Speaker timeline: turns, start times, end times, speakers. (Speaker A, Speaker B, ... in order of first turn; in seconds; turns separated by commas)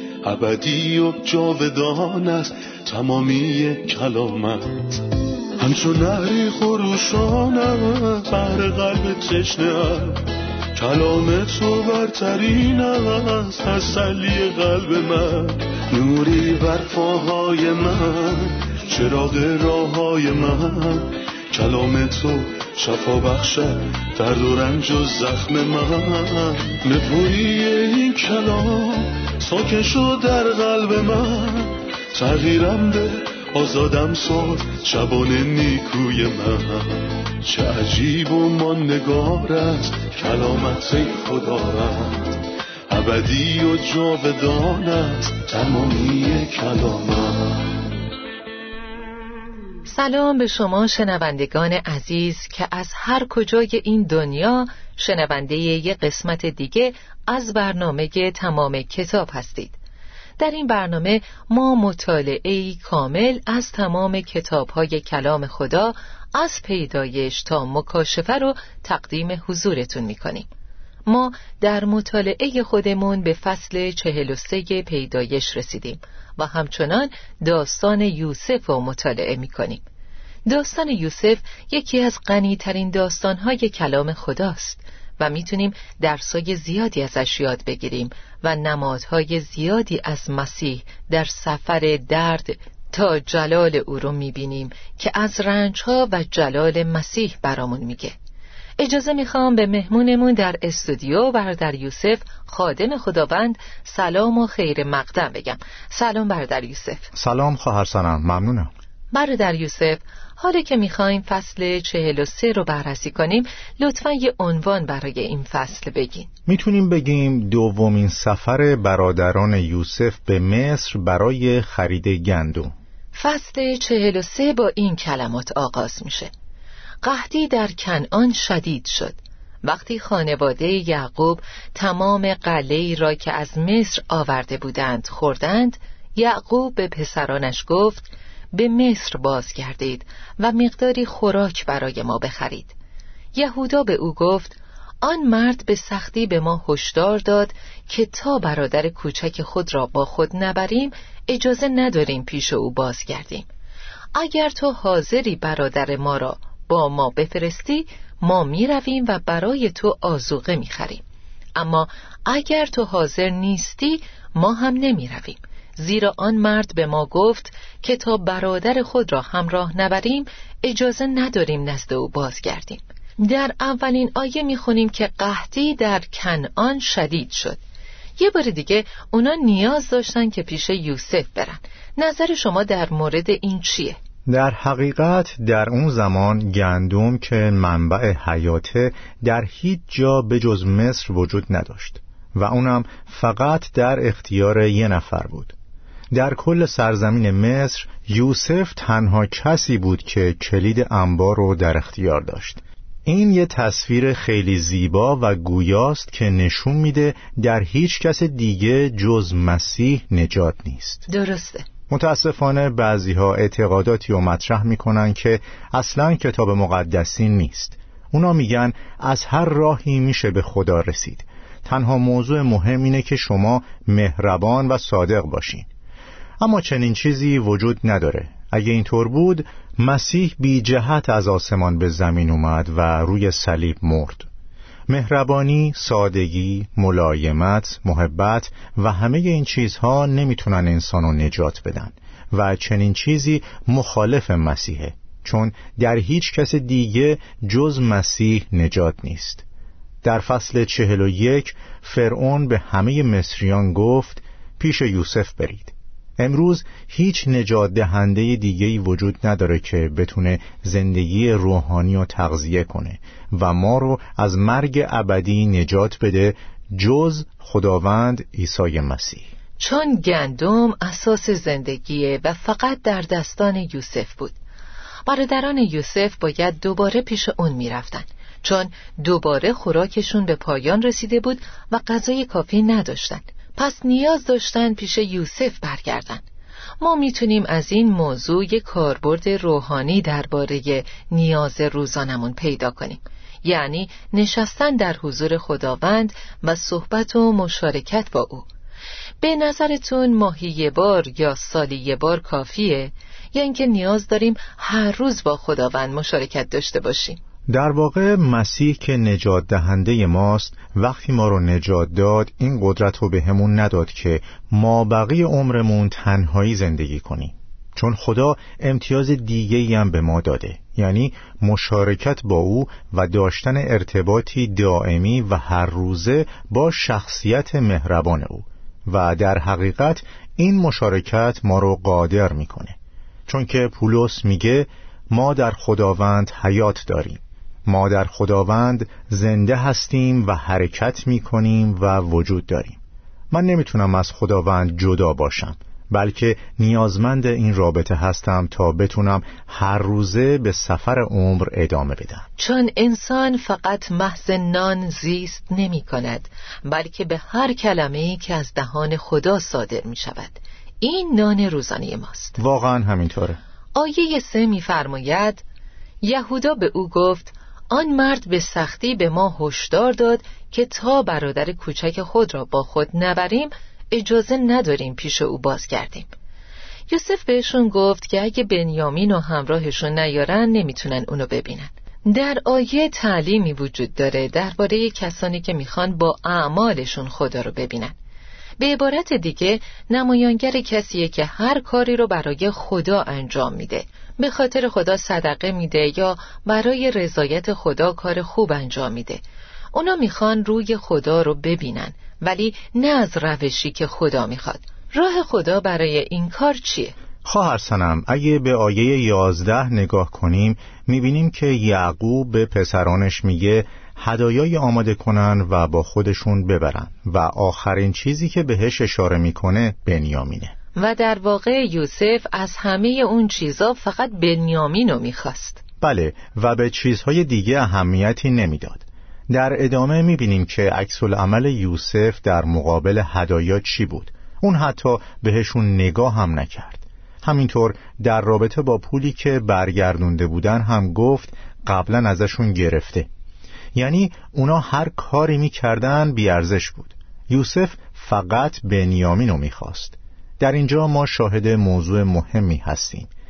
Speaker A: 0.2-5.0, Speaker A: 5.6-47.8, Speaker B: 49.9-59.8, Speaker B: 60.4-70.5, Speaker B: 71.1-79.8, Speaker B: 80.5-98.2, Speaker B: 98.8-107.1, Speaker C: 107.1-108.7, Speaker B: 109.1-116.3, Speaker C: 116.5-122.7, Speaker B: 123.1-126.3, Speaker B: 127.0-142.8, Speaker B: 143.3-153.5, Speaker B: 154.1-161.0, Speaker B: 161.6-177.6, Speaker B: 178.2-184.0, Speaker C: 184.3-195.6, Speaker C: 196.1-211.1, Speaker B: 211.1-211.7, Speaker C: 211.9-225.7, Speaker C: 226.4-234.3, Speaker C: 234.9-249.4, Speaker C: 250.0-269.3, Speaker B: 269.6-274.4, Speaker B: 275.1-286.2, Speaker B: 286.8-298.5, Speaker B: 299.2-307.2, Speaker C: 307.5-332.8, Speaker C: 333.3-342.8, Speaker C: 343.3-352.3, Speaker B: 352.4-362.4, Speaker C: 362.4-363.4, Speaker B: 363.8-365.4, Speaker B: 366.0-376.1, Speaker B: 376.9-387.9, Speaker B: 388.6-399.2, Speaker B: 399.7-406.9, Speaker C: 407.2-420.5, Speaker B: 420.8-425.6, Speaker C: 425.8-443.1, Speaker C: 443.8-453.1